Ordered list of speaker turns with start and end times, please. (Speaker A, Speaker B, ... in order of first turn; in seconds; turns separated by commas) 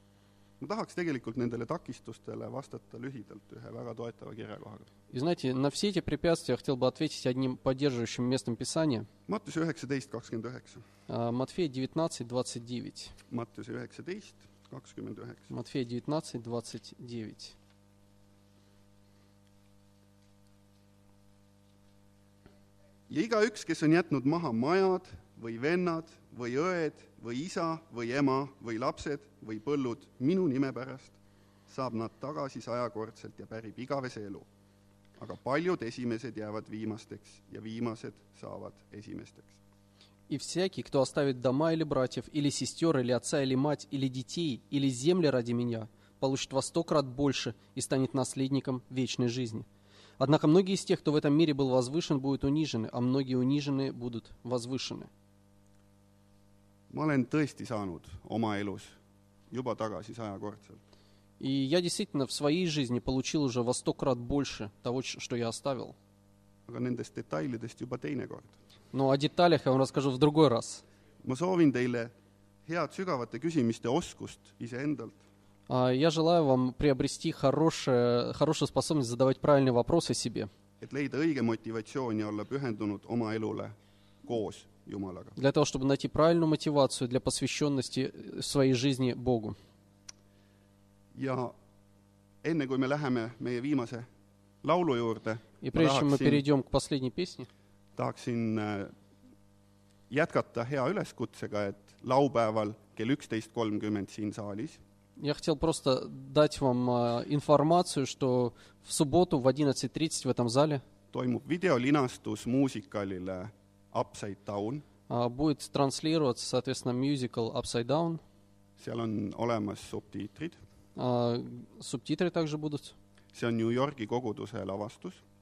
Speaker A: 0.6-4.9, Speaker B: 5.1-9.1, Speaker A: 9.3-10.8, Speaker B: 11.1-13.2, Speaker A: 13.3-15.5, Speaker B: 15.5-17.6, Speaker A: 23.1-31.2, Speaker A: 31.7-34.5, Speaker A: 35.2-39.6, Speaker B: 40.3-49.7, Speaker B: 50.2-55.1, Speaker A: 56.9-59.0, Speaker A: 59.5-60.8, Speaker B: 61.4-66.0, Speaker A: 66.7-68.5, Speaker B: 68.9-70.8, Speaker A: 71.2-72.1, Speaker A: 72.7-75.2, Speaker B: 75.7-80.5, Speaker A: 80.8-85.4, Speaker B: 85.4-89.6, Speaker A: 91.2-91.5, Speaker A: 92.4-94.1, Speaker A: 94.6-96.4, Speaker B: 95.6-97.5, Speaker A: 98.0-98.9, Speaker A: 100.1-104.8, Speaker B: 105.2-110.8, Speaker A: 111.1-114.8, Speaker B: 115.1-118.2, Speaker A: 118.8-120.6, Speaker B: 121.0-123.0, Speaker A: 123.3-125.2